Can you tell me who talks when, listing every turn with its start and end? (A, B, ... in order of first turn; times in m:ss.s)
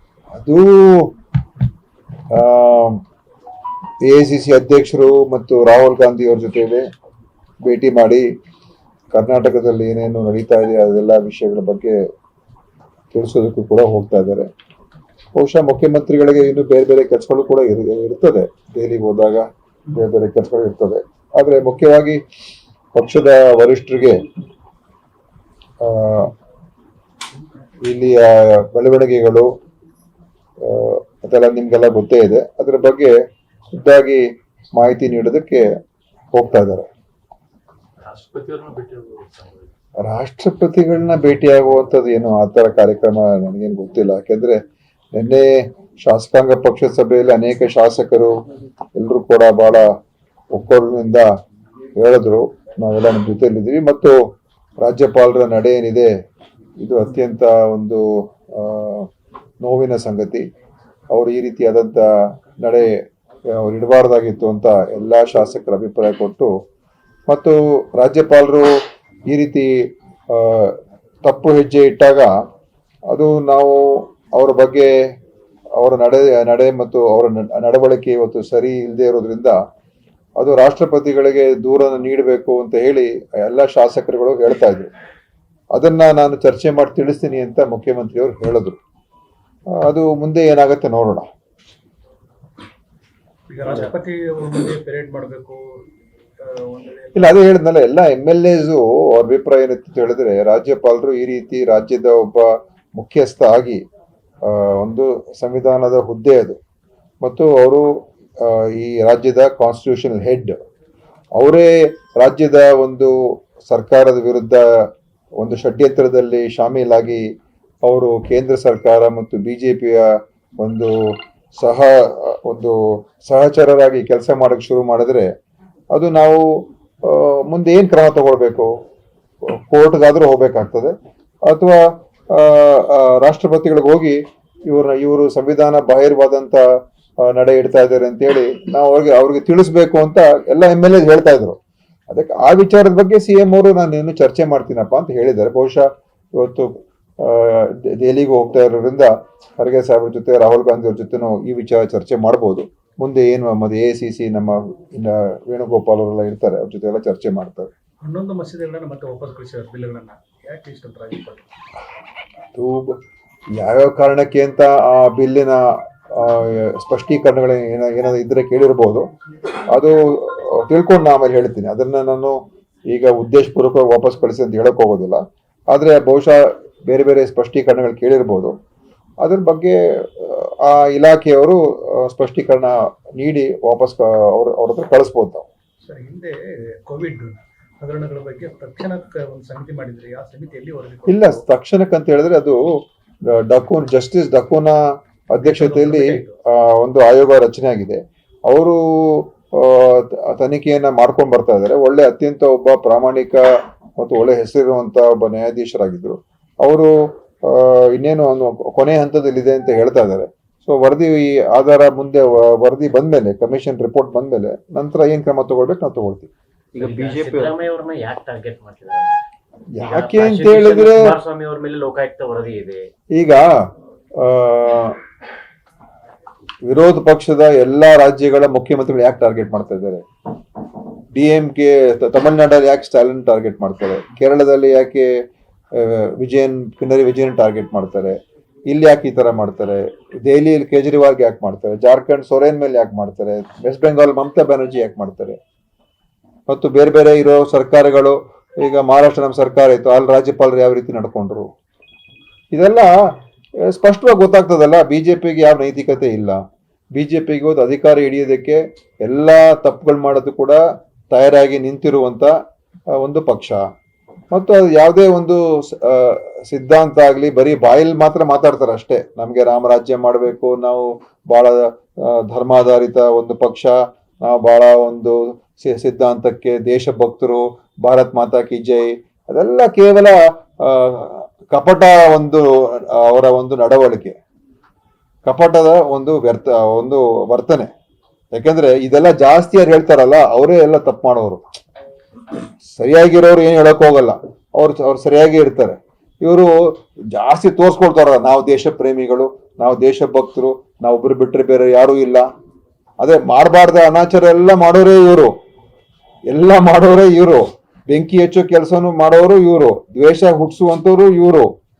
0:00.4-0:01.1 A
0:02.3-0:03.0 A
0:04.0-0:06.8 A
0:07.6-0:08.3 A
0:09.1-0:12.0 A
0:13.1-0:14.5 A
0:15.4-0:22.2 A
0:22.9-0:24.2 A
0:25.8-0:26.3 A
0:27.8-0:29.5 A
0:30.6-0:33.1 A
0:33.7-0:35.7 A
0:36.3-0:36.9 A
0:38.0-0:39.7 B
0:40.0-0:44.6 A
0:45.1-0:45.5 A
0:46.0-0:48.3 A
0:49.0-0:49.9 A
0:50.5-0:51.2 A
0:52.0-0:54.2 A
0:54.8-0:56.1 A
0:56.8-0:59.1 A
0:59.6-1:00.4 A
1:01.1-1:02.1 A
1:02.6-1:02.9 A
1:03.5-1:06.5 A
1:07.3-1:08.8 A
1:09.3-1:09.7 A
1:10.3-1:12.3 A
1:13.1-1:15.0 A
1:15.8-1:19.6 A
1:20.4-1:24.9 A
1:25.7-1:28.8 A
1:29.7-1:31.2 A
1:33.5-1:35.6 C
1:36.4-1:37.4 C
1:37.1-1:43.8 A
1:44.4-1:46.6 A
1:47.2-1:47.8 A
1:48.4-1:50.6 A
1:51.4-1:54.6 A
1:55.4-1:57.2 A
1:57.8-2:00.1 A
2:00.6-2:05.3 A
2:05.9-2:08.7 A
2:09.6-2:10.9 A
2:11.4-2:16.6 A
2:17.2-2:21.6 A
2:22.1-2:37.7 A
2:38.0-2:41.4 C
2:42.5-2:43.0 A
2:43.5-2:49.1 A
2:49.7-2:52.4 A
2:52.9-2:55.2 A
2:55.7-2:58.5 A
2:59.2-3:05.4 A
3:05.8-3:11.4 C
3:11.1-3:12.6 A
3:13.3-3:23.4 A
3:15.4-3:16.3 C
3:24.0-3:26.9 A
3:27.4-3:37.5 A
3:36.8-3:39.2 B
3:39.7-3:41.2 A
3:39.8-3:42.9 B
3:43.1-3:45.0 A
3:46.6-3:50.0 A
3:51.1-3:55.1 A
3:55.7-3:58.2 A
3:58.7-4:05.4 A
4:06.5-4:11.5 A
4:12.5-4:12.9 A
4:13.6-4:16.4 A
4:16.9-4:22.3 A
4:22.9-4:23.6 A
4:24.3-4:44.2 A
4:45.2-4:47.7 A
4:48.3-4:51.4 A
4:52.6-4:56.5 A
4:57.1-5:02.2 A
5:03.0-5:05.3 A
5:06.3-5:11.5 A